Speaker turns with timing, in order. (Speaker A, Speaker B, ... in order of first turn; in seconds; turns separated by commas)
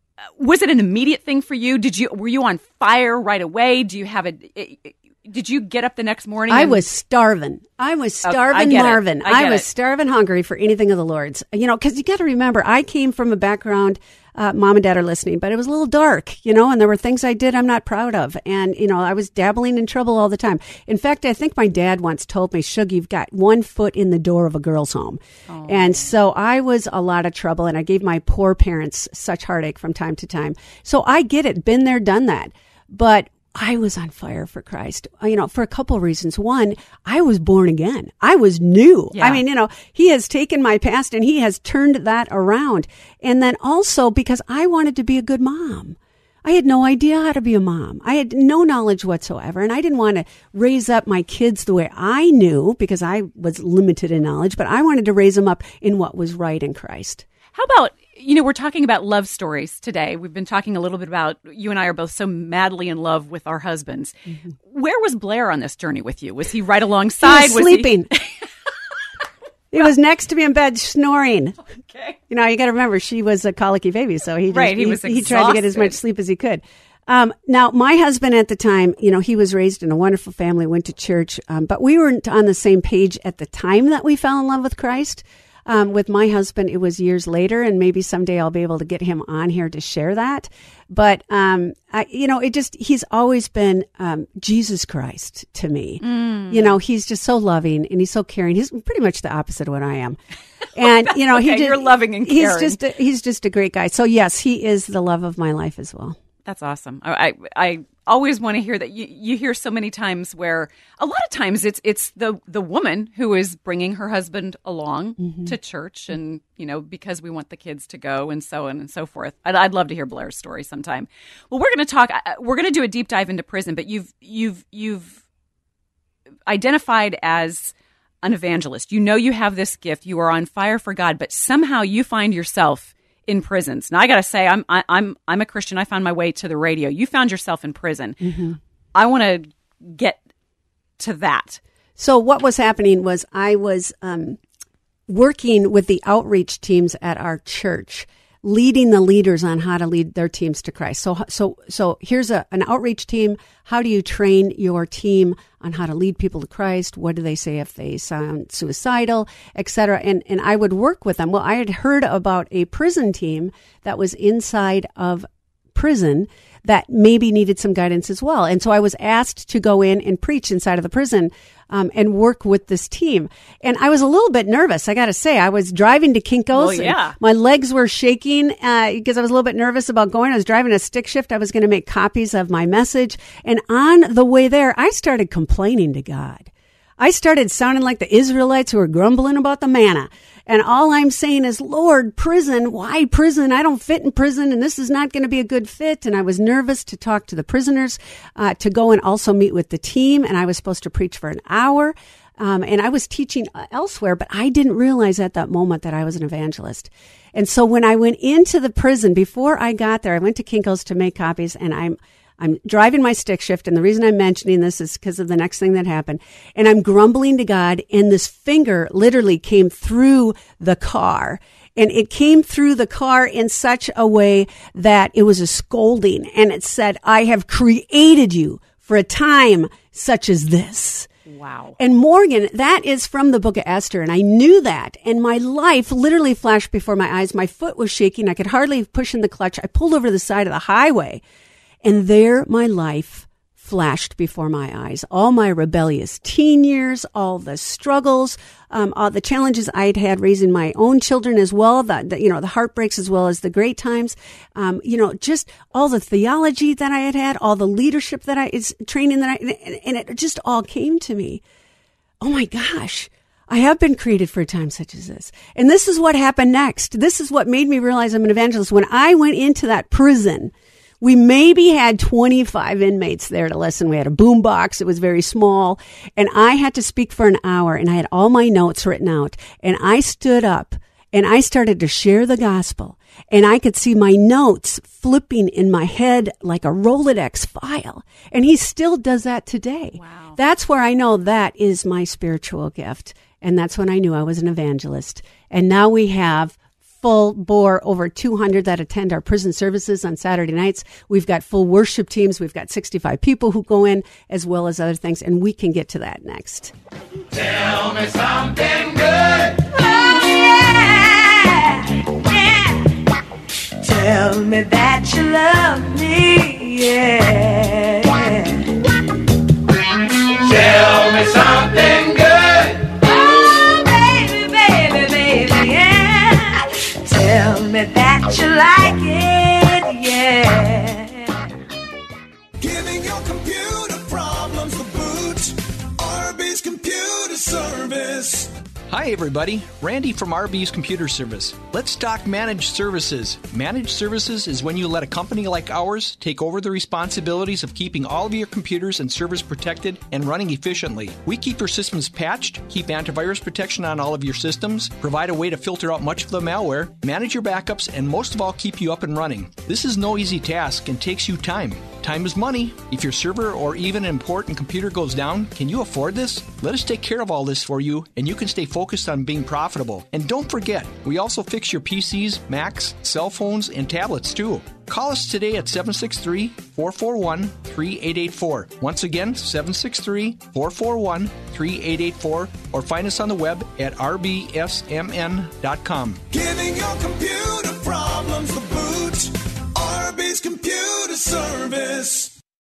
Speaker A: 0.4-6.8, Speaker B: 6.5-57.2, Speaker A: 8.2-9.7, Speaker A: 25.5-26.1, Speaker A: 39.1-39.4, Speaker A: 57.5-68.0, Speaker B: 67.2-68.1, Speaker B: 69.7-71.6, Speaker A: 71.7-72.2, Speaker B: 72.3-100.2, Speaker A: 74.5-76.0, Speaker A: 96.0-96.8, Speaker B: 100.8-106.2, Speaker A: 101.1-102.8, Speaker A: 106.5-125.2, Speaker B: 115.2-115.5, Speaker A: 126.5-138.2, Speaker B: 138.2-138.6, Speaker A: 138.9-140.2, Speaker A: 141.0-141.6, Speaker B: 142.0-144.4, Speaker B: 145.1-231.1, Speaker A: 176.5-177.2, Speaker A: 231.3-231.8, Speaker B: 231.8-241.2, Speaker B: 241.8-261.4, Speaker B: 262.2-306.7, Speaker A: 290.0-290.4, Speaker C: 307.5-312.9, Speaker C: 313.8-318.7, Speaker C: 320.4-331.4, Speaker D: 332.6-335.5, Speaker D: 336.0-338.5, Speaker E: 338.9-386.2, Speaker D: 386.3-392.3